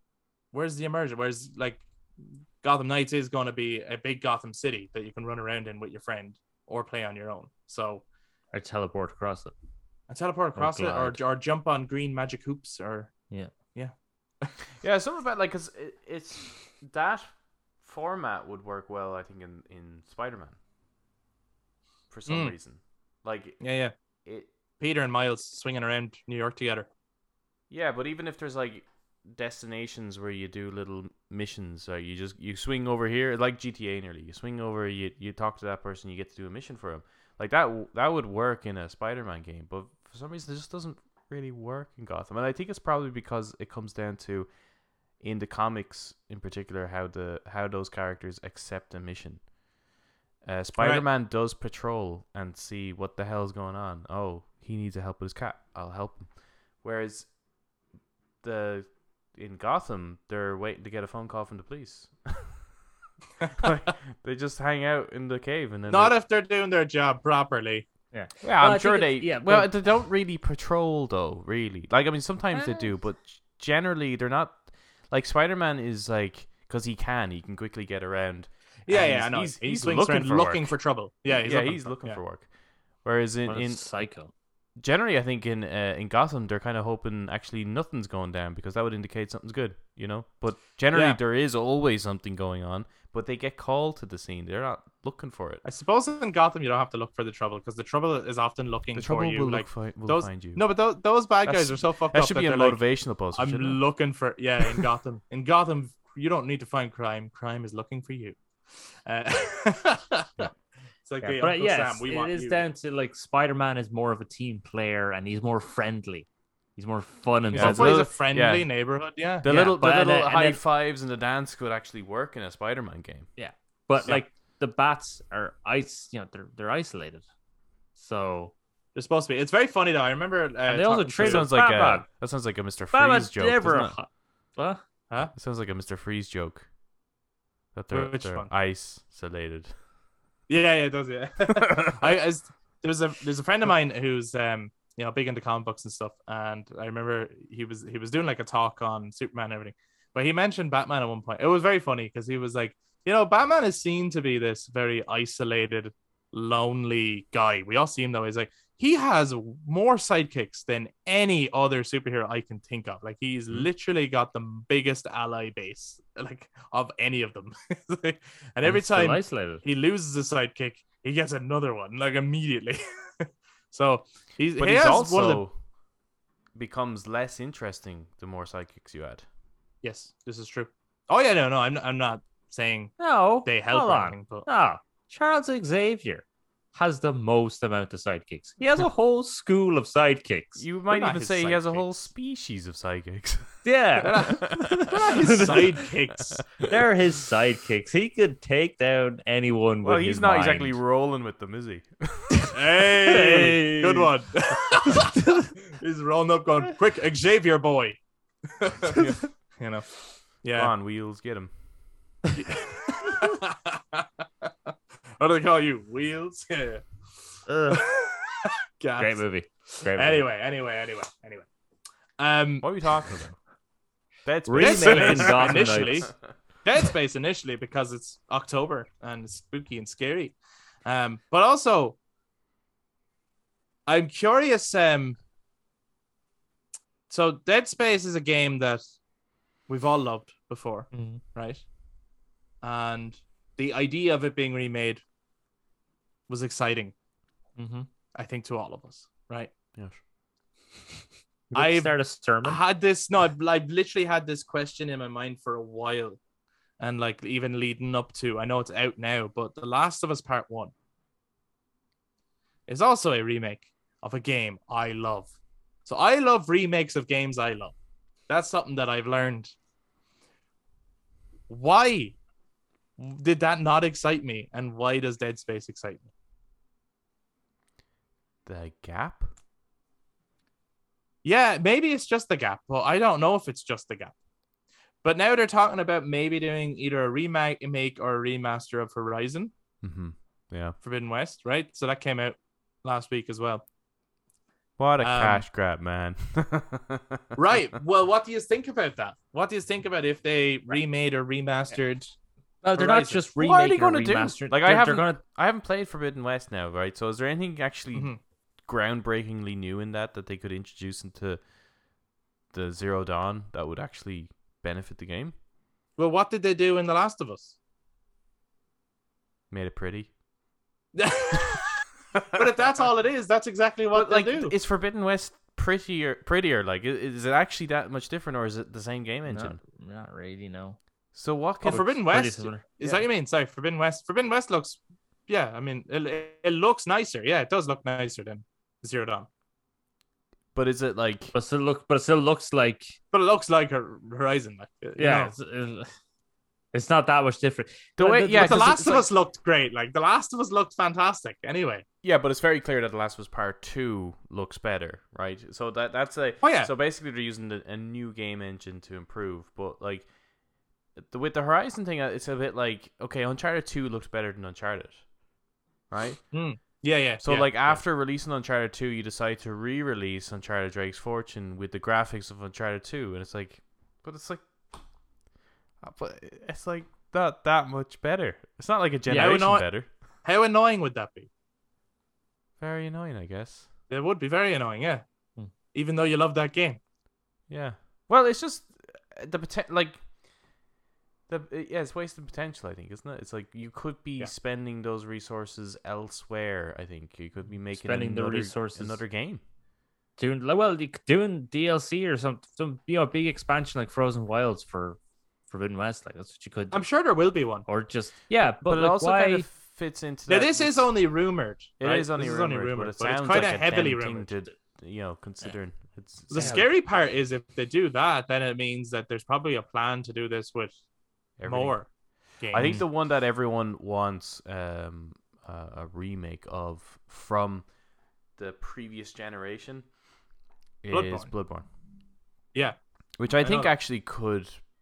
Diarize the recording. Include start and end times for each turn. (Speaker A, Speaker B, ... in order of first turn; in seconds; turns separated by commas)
Speaker A: 0.5-1.9, Speaker A: 2.6-8.0, Speaker B: 8.5-9.5, Speaker A: 10.1-13.1, Speaker B: 10.5-11.2, Speaker A: 13.7-14.6, Speaker C: 14.8-20.6, Speaker C: 22.1-23.6, Speaker A: 22.3-22.5, Speaker A: 23.6-23.9, Speaker A: 24.8-26.9, Speaker C: 27.7-44.5, Speaker C: 45.2-49.5, Speaker C: 50.4-57.3, Speaker A: 50.8-51.0, Speaker C: 58.4-62.7, Speaker C: 63.5-66.1, Speaker A: 65.9-67.8, Speaker B: 68.1-69.8, Speaker C: 68.4-82.5, Speaker B: 72.5-72.9, Speaker A: 78.9-82.2, Speaker C: 83.0-83.8, Speaker B: 83.5-84.3, Speaker C: 84.8-95.6, Speaker A: 90.9-91.2, Speaker A: 95.6-108.4, Speaker C: 98.9-100.7, Speaker C: 101.4-103.8, Speaker A: 109.0-110.5, Speaker A: 111.0-112.6, Speaker B: 111.2-118.0, Speaker A: 117.5-119.5, Speaker C: 117.5-118.7, Speaker C: 119.4-123.3, Speaker B: 119.4-120.6, Speaker B: 123.4-127.2, Speaker A: 124.0-124.2, Speaker B: 128.0-128.5, Speaker A: 128.9-131.5, Speaker B: 130.7-132.1, Speaker C: 131.2-133.9, Speaker B: 132.9-134.8, Speaker C: 135.3-136.7, Speaker C: 137.7-139.7, Speaker A: 137.9-138.5, Speaker A: 140.5-175.4, Speaker C: 141.6-141.9, Speaker B: 168.6-169.6, Speaker C: 174.6-175.5, Speaker C: 176.5-179.2, Speaker A: 179.8-184.5, Speaker B: 183.0-190.6, Speaker C: 190.6-194.9, Speaker A: 190.9-191.9, Speaker B: 193.6-195.8, Speaker A: 194.0-196.5, Speaker C: 196.3-196.7, Speaker B: 196.7-200.8, Speaker C: 199.8-202.4, Speaker B: 202.3-204.1, Speaker A: 202.5-208.0, Speaker A: 208.5-210.7, Speaker C: 210.5-211.5, Speaker A: 212.3-216.9, Speaker B: 217.5-217.8, Speaker A: 217.7-219.2, Speaker B: 219.0-220.2, Speaker A: 219.8-221.5, Speaker A: 222.2-223.2, Speaker C: 222.6-223.3, Speaker C: 224.2-226.1, Speaker B: 224.4-226.1, Speaker A: 224.6-232.0, Speaker A: 233.9-235.2, Speaker A: 237.1-238.8, Speaker A: 239.7-241.6, Speaker B: 240.9-241.2, Speaker A: 242.6-245.0, Speaker A: 246.3-246.9, Speaker B: 247.6-247.9, Speaker A: 248.1-249.5, Speaker C: 249.7-250.0, Speaker B: 251.5-252.6, Speaker A: 251.5-256.2, Speaker A: 256.8-260.7, Speaker A: 262.7-265.3, Speaker A: 265.9-267.7, Speaker A: 268.3-269.5, Speaker A: 271.5-272.1, Speaker A: 273.0-276.1, Speaker C: 278.4-279.3, Speaker A: 281.2-284.1, Speaker A: 285.0-289.5, Speaker C: 289.8-290.8, Speaker A: 290.8-293.6, Speaker C: 294.8-297.4, Speaker A: 295.0-295.4, Speaker A: 297.4-302.1, Speaker B: 302.6-305.2, Speaker A: 302.7-303.2, Speaker C: 303.4-308.1, Speaker A: 307.9-308.2, Speaker C: 308.6-311.4, Speaker C: 312.5-315.3, Speaker A: 316.0-317.6, Speaker C: 319.5-320.1, Speaker A: 320.9-324.5, Speaker C: 323.9-329.6, Speaker B: 329.2-330.8, Speaker C: 331.1-332.0, Speaker A: 331.6-339.3, Speaker B: 331.6-333.0, Speaker C: 340.5-341.3, Speaker B: 341.3-343.0, Speaker A: 343.1-345.3, Speaker B: 344.9-345.9, Speaker B: 346.7-348.9, Speaker C: 348.0-349.1, Speaker A: 348.3-351.8, Speaker C: 352.0-360.1, Speaker A: 356.4-356.7, Speaker C: 360.9-365.0, Speaker C: 365.9-366.2, Speaker A: 366.3-367.8, Speaker C: 367.2-374.4, Speaker C: 375.8-379.9, Speaker A: 379.1-379.7, Speaker A: 380.2-381.3, Speaker C: 382.6-383.7, Speaker A: 383.9-385.0, Speaker A: 385.7-386.8, Speaker C: 387.5-390.0, Speaker C: 391.3-399.4, Speaker B: 397.7-399.0, Speaker B: 400.2-406.9, Speaker A: 406.7-407.6, Speaker B: 407.6-409.4, Speaker C: 408.4-410.9, Speaker A: 410.3-414.4, Speaker C: 411.8-416.6, Speaker A: 416.3-420.7, Speaker B: 416.4-416.6, Speaker C: 421.4-421.8, Speaker A: 421.4-422.8, Speaker C: 422.5-427.7, Speaker C: 428.4-429.9, Speaker C: 430.8-431.6, Speaker A: 430.9-431.3, Speaker C: 433.2-434.6, Speaker A: 433.4-433.7